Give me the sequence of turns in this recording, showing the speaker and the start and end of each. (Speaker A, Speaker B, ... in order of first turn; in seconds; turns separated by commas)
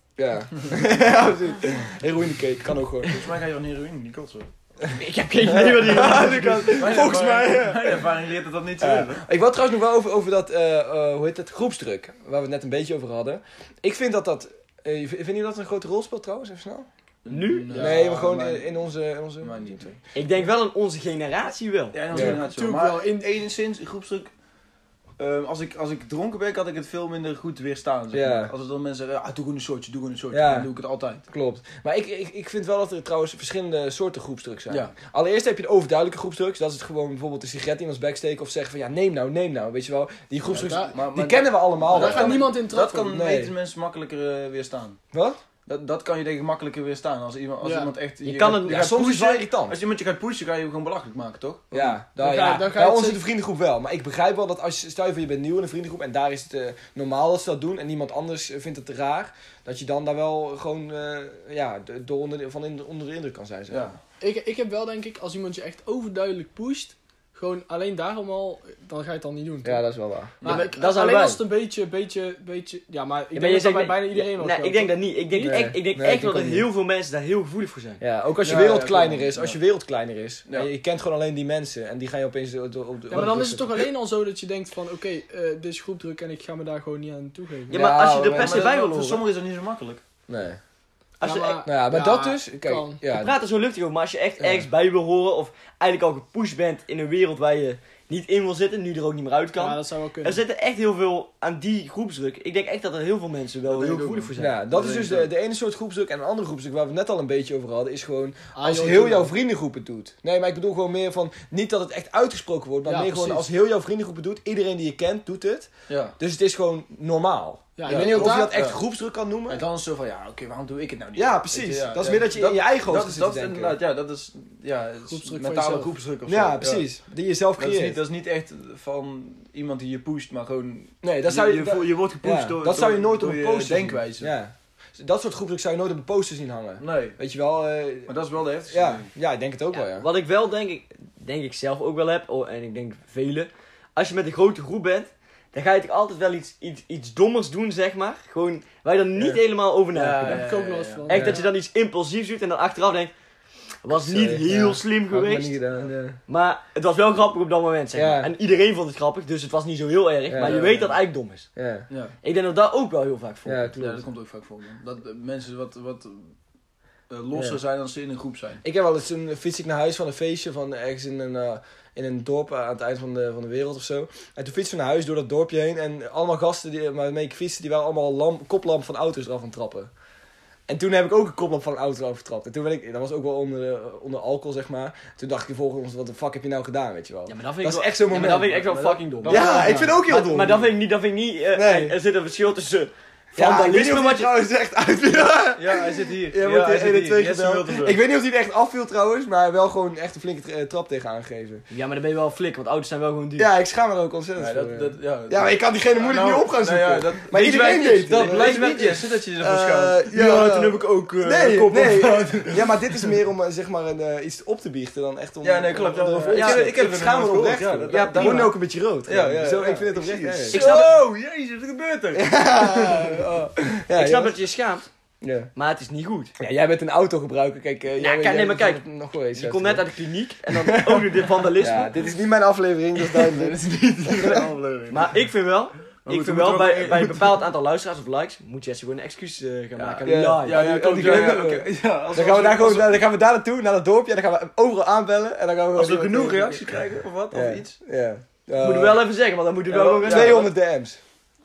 Speaker A: 0.2-3.2, Speaker B: 3.0-4.5, Speaker C: 4.9-7.0, Speaker A: 5.4-8.1, Speaker B: 6.7-9.2, Speaker A: 8.8-16.9, Speaker B: 17.2-18.7, Speaker C: 17.3-17.9, Speaker A: 17.7-19.9, Speaker B: 19.4-20.0, Speaker C: 20.1-22.0, Speaker B: 21.9-24.3, Speaker A: 22.1-22.4, Speaker D: 22.1-23.3, Speaker B: 25.2-31.2, Speaker A: 28.1-28.5, Speaker A: 30.3-30.7, Speaker A: 31.3-42.5, Speaker B: 34.7-34.9, Speaker B: 40.5-45.0, Speaker D: 40.5-41.0, Speaker D: 41.9-43.1, Speaker A: 43.1-43.5, Speaker A: 45.1-45.4, Speaker B: 45.6-52.0, Speaker D: 47.6-47.9, Speaker C: 48.2-49.1, Speaker A: 48.6-49.8, Speaker A: 51.7-63.9, Speaker D: 52.2-53.2, Speaker B: 63.7-64.0, Speaker D: 64.2-69.8, Speaker A: 69.6-70.4, Speaker D: 70.4-75.6, Speaker C: 70.4-71.4, Speaker C: 73.3-78.0, Speaker A: 75.4-76.7, Speaker A: 78.0-83.9, Speaker B: 78.4-79.6, Speaker D: 83.1-87.8, Speaker A: 87.7-88.7, Speaker C: 87.7-89.2, Speaker B: 88.3-90.0, Speaker A: 90.3-90.6, Speaker C: 91.2-91.7, Speaker D: 91.2-93.0, Speaker A: 91.6-93.3, Speaker C: 93.1-104.6, Speaker A: 94.4-94.7, Speaker D: 99.6-100.4, Speaker B: 103.7-105.3, Speaker A: 104.4-119.6, Speaker D: 108.5-109.3, Speaker D: 112.8-113.5, Speaker B: 115.9-116.2, Speaker D: 117.8-118.5, Speaker B: 117.8-118.8, Speaker B: 119.5-126.9, Speaker A: 121.1-123.8, Speaker D: 125.0-125.9, Speaker A: 126.2-128.0, Speaker B: 127.6-134.3, Speaker A: 131.0-138.1, Speaker B: 136.8-137.2, Speaker B: 138.1-139.1, Speaker A: 138.7-140.1, Speaker C: 139.7-150.5, Speaker B: 149.9-151.1, Speaker D: 150.2-151.5, Speaker C: 151.1-153.1, Speaker A: 151.1-151.4, Speaker C: 153.8-155.6, Speaker A: 153.9-156.2, Speaker C: 156.3-161.5, Speaker A: 157.9-158.3, Speaker A: 160.3-160.9, Speaker B: 160.4-160.9, Speaker A: 161.5-161.9, Speaker B: 161.9-162.2, Speaker C: 162.2-163.7, Speaker A: 163.4-164.0, Speaker B: 163.8-166.3, Speaker B: 167.1-168.6, Speaker A: 168.6-179.9, Speaker A: 180.7-188.6, Speaker C: 187.3-194.3, Speaker B: 188.1-189.9, Speaker A: 189.2-190.7, Speaker A: 191.5-191.9, Speaker A: 193.3-201.6, Speaker B: 195.5-198.0, Speaker C: 201.7-203.5, Speaker A: 203.4-220.7, Speaker B: 204.3-210.6, Speaker C: 207.3-208.9, Speaker C: 210.1-211.8, Speaker B: 211.3-213.1, Speaker B: 215.4-223.2, Speaker C: 216.3-216.8, Speaker C: 217.9-218.5, Speaker C: 220.5-220.9, Speaker A: 222.1-224.4, Speaker C: 223.9-224.8, Speaker A: 225.2-225.5, Speaker C: 225.5-226.3, Speaker A: 226.4-229.9, Speaker C: 228.0-231.9, Speaker A: 230.5-231.1, Speaker A: 231.6-234.4, Speaker B: 233.0-235.2, Speaker C: 234.9-241.1, Speaker B: 236.0-237.4, Speaker B: 239.8-243.0, Speaker A: 240.0-246.7, Speaker B: 245.7-247.8, Speaker A: 247.3-249.0, Speaker C: 248.6-250.5, Speaker B: 249.7-250.5, Speaker A: 250.0-251.0